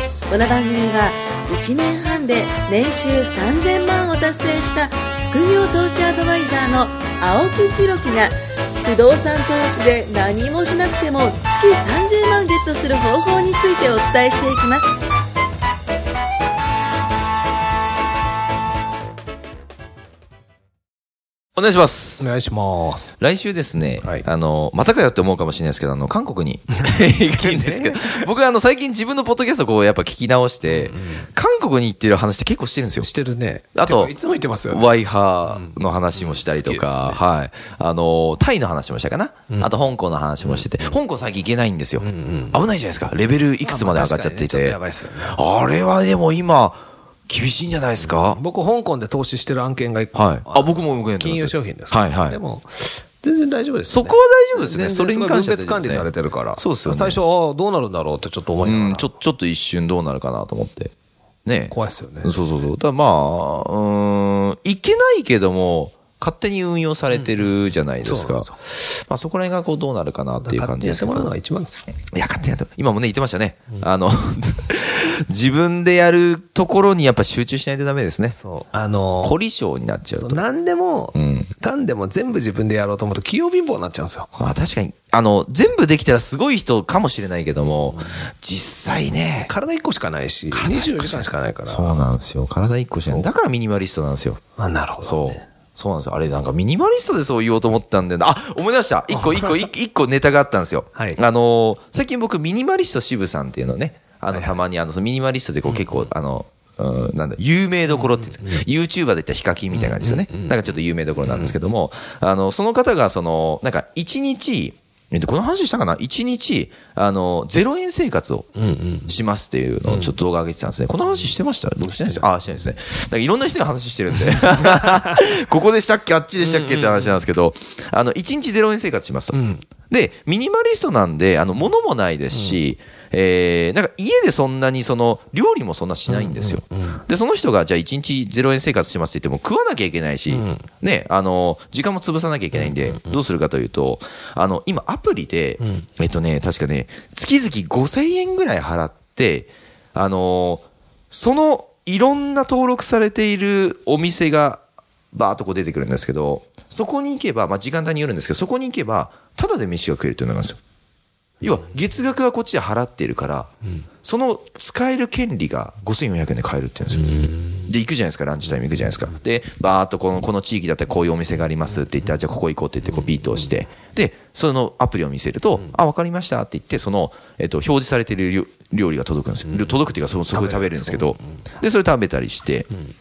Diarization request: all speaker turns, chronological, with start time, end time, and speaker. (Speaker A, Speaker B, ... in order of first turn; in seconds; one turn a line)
Speaker A: 0.3-14.9
Speaker B: 21.6-22.3
Speaker C: 22.2-23.2
Speaker B: 23.2-33.1
Speaker C: 26.7-28.3
Speaker C: 30.6-31.3
Speaker C: 33.0-37.2
Speaker B: 33.8-34.1
Speaker B: 34.7-48.4
Speaker C: 40.4-41.0
Speaker C: 42.0-42.6
Speaker C: 43.6-45.4
Speaker C: 48.0-59.1
Speaker B: 50.1-52.4
Speaker B: 53.9-57.2
Speaker B: 58.6-60.9
Speaker B: 61.5-71.3
Speaker C: 61.7-62.4
Speaker C: 67.1-68.5
Speaker C: 70.3-71.9
Speaker B: 72.1-78.4
Speaker C: 78.3-79.4
Speaker B: 79.2-80.4
Speaker C: 80.2-84.3
Speaker B: 81.1-81.5
Speaker B: 84.4-89.5
Speaker C: 89.5-92.0
Speaker B: 90.5-94.4
Speaker C: 92.9-93.3
Speaker C: 94.6-95.5
Speaker B: 95.0-118.5
Speaker C: 100.9-101.2
Speaker C: 104.3-104.6
Speaker C: 105.7-106.1
Speaker C: 107.9-108.6
Speaker C: 109.7-110.6
Speaker C: 111.2-111.6
Speaker C: 118.6-119.2
Speaker B: 119.1-129.4
Speaker C: 119.9-120.1
Speaker C: 121.9-122.3
Speaker C: 124.2-125.2
Speaker C: 126.4-127.2
Speaker C: 129.3-129.7
Speaker B: 129.9-154.6
Speaker C: 132.3-132.6
Speaker C: 136.1-137.0
Speaker C: 140.3-140.7
Speaker C: 142.6-143.1
Speaker C: 145.6-145.9
Speaker B: 155.1-160.6
Speaker B: 161.4-163.5
Speaker B: 164.0-182.7
Speaker C: 167.1-167.6
Speaker C: 179.5-179.8
Speaker C: 180.3-181.4